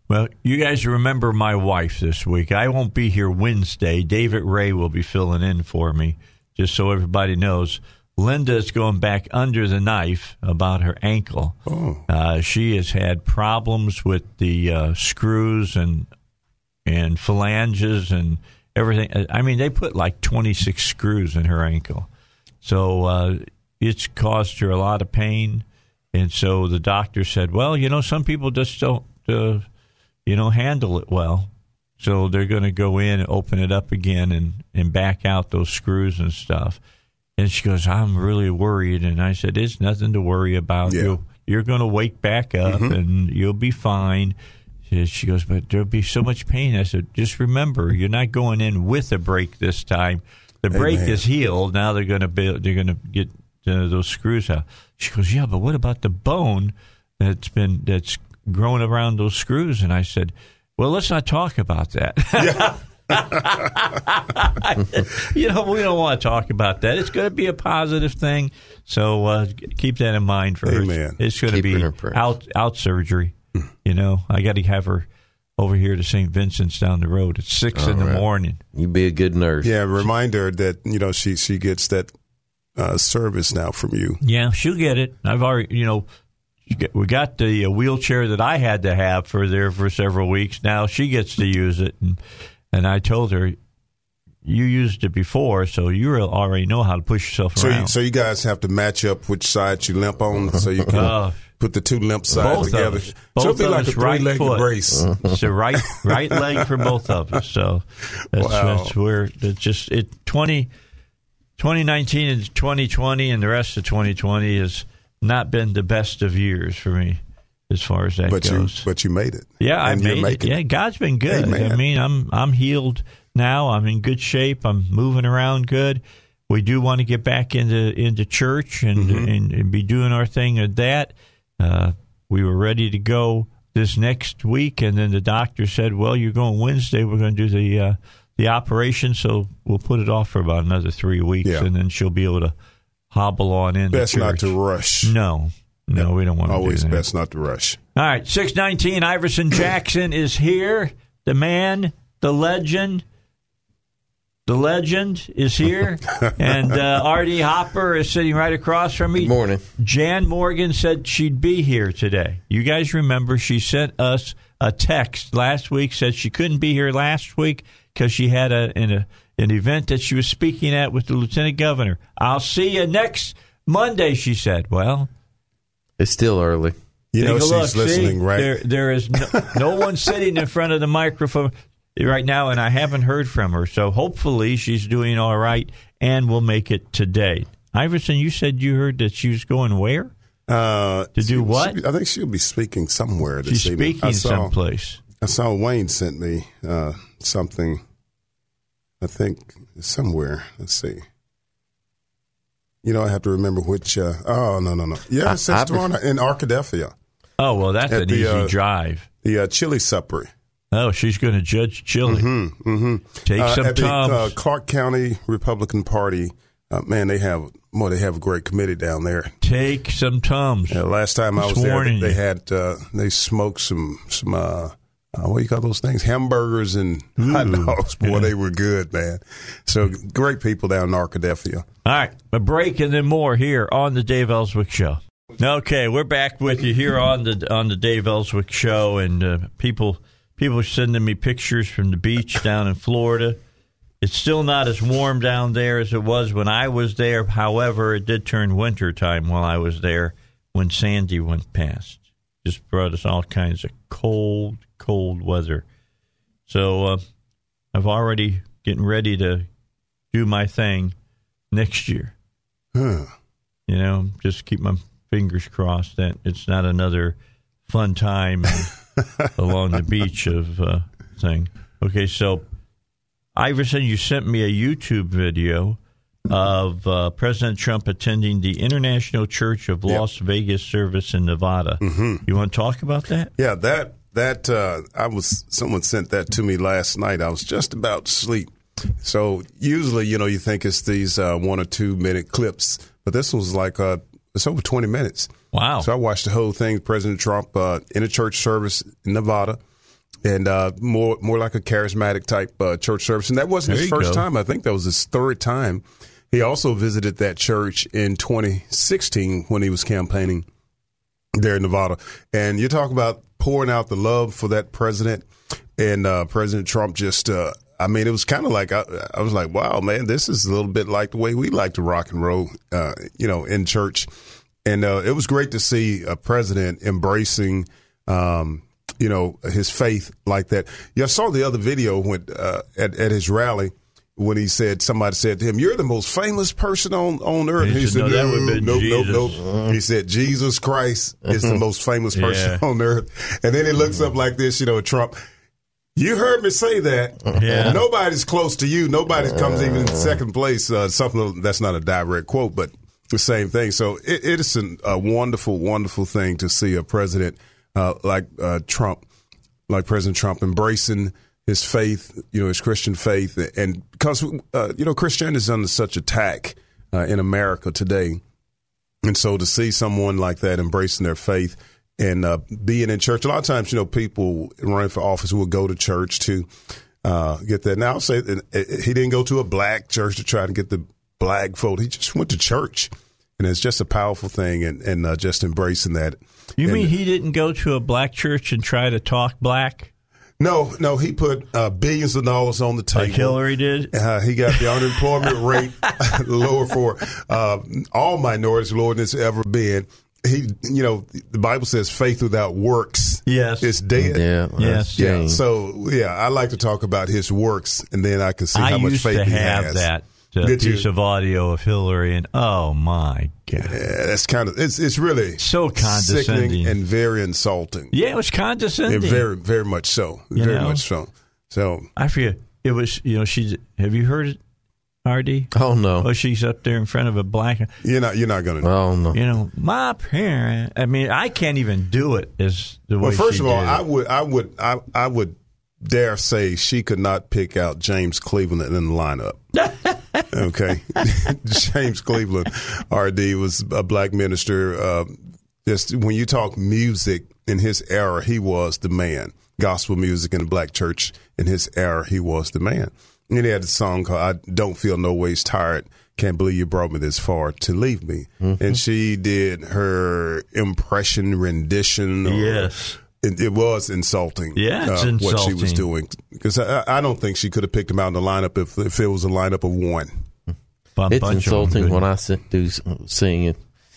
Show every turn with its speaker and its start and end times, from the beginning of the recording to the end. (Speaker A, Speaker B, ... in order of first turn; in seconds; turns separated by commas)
Speaker A: 0.1-16.1, Speaker B: 11.7-12.0, Speaker A: 16.9-22.1, Speaker A: 22.6-29.6, Speaker A: 30.3-36.8, Speaker A: 37.4-44.4, Speaker B: 40.9-41.2, Speaker B: 42.7-42.9, Speaker A: 44.9-73.3, Speaker B: 50.7-51.2, Speaker B: 62.4-63.6, Speaker B: 70.7-71.2, Speaker C: 71.5-72.2, Speaker A: 73.8-78.6, Speaker C: 77.7-79.7, Speaker B: 79.6-82.1, Speaker B: 82.8-84.2, Speaker A: 84.2-86.1, Speaker A: 86.7-92.2, Speaker A: 92.7-93.6, Speaker A: 94.5-97.9, Speaker B: 97.6-105.2, Speaker A: 100.9-101.4, Speaker A: 102.3-110.7, Speaker C: 104.9-105.4, Speaker B: 106.1-106.7, Speaker B: 108.3-108.9, Speaker A: 111.6-118.9, Speaker B: 118.3-120.6, Speaker A: 119.6-142.5, Speaker B: 121.3-121.8, Speaker B: 129.0-129.3, Speaker A: 143.1-147.0, Speaker B: 143.9-145.1, Speaker B: 146.0-147.8, Speaker A: 148.0-153.0, Speaker A: 154.5-175.1, Speaker C: 159.2-159.6, Speaker C: 176.0-176.8, Speaker B: 177.1-178.6, Speaker A: 177.2-190.1, Speaker B: 190.5-194.5, Speaker A: 191.2-191.8, Speaker A: 193.5-195.0, Speaker B: 195.2-197.8, Speaker B: 199.0-201.0, Speaker B: 202.8-206.9, Speaker C: 205.2-205.9, Speaker A: 207.4-209.1, Speaker B: 207.9-208.6, Speaker B: 209.2-210.3, Speaker A: 210.7-212.3, Speaker B: 212.1-219.3, Speaker A: 213.2-214.3, Speaker A: 219.4-220.8, Speaker B: 220.7-231.7, Speaker A: 221.4-222.2, Speaker A: 227.2-228.3, Speaker A: 231.8-243.4, Speaker A: 244.0-255.7, Speaker A: 256.5-257.0, Speaker A: 257.7-259.5, Speaker A: 260.1-260.9, Speaker A: 261.5-262.1, Speaker B: 262.8-263.1, Speaker A: 263.7-267.2, Speaker A: 267.7-268.7, Speaker A: 269.4-272.4, Speaker A: 273.4-275.8, Speaker A: 276.3-283.3, Speaker B: 281.8-282.2, Speaker B: 283.4-288.5, Speaker B: 289.0-299.6, Speaker A: 295.5-295.9, Speaker B: 300.2-310.5, Speaker A: 303.7-304.3, Speaker B: 311.4-324.1, Speaker B: 324.6-345.2, Speaker A: 337.6-339.4, Speaker C: 341.3-341.6, Speaker A: 342.1-342.6, Speaker B: 346.0-359.0, Speaker A: 347.4-347.8, Speaker C: 347.4-347.8, Speaker C: 349.2-350.2, Speaker B: 359.7-368.2, Speaker B: 369.0-376.5, Speaker B: 377.0-386.9, Speaker A: 386.6-389.9, Speaker B: 390.4-393.4, Speaker A: 392.9-393.9, Speaker B: 393.9-404.2, Speaker A: 403.3-403.7, Speaker C: 404.0-405.4, Speaker A: 404.6-405.2, Speaker B: 405.0-409.9, Speaker A: 408.6-413.8, Speaker B: 410.4-410.9, Speaker B: 413.6-417.9, Speaker A: 415.4-416.8, Speaker A: 417.9-419.3, Speaker B: 418.9-421.9, Speaker A: 420.4-420.8, Speaker A: 422.0-424.4, Speaker A: 425.1-427.7, Speaker C: 425.5-426.1, Speaker B: 427.8-428.7, Speaker C: 428.6-429.2, Speaker A: 429.1-433.8, Speaker B: 433.0-439.4, Speaker A: 439.6-440.3, Speaker B: 440.3-470.1, Speaker C: 458.4-458.8, Speaker A: 462.2-463.0, Speaker A: 464.6-465.9, Speaker A: 471.0-472.0, Speaker C: 471.1-473.6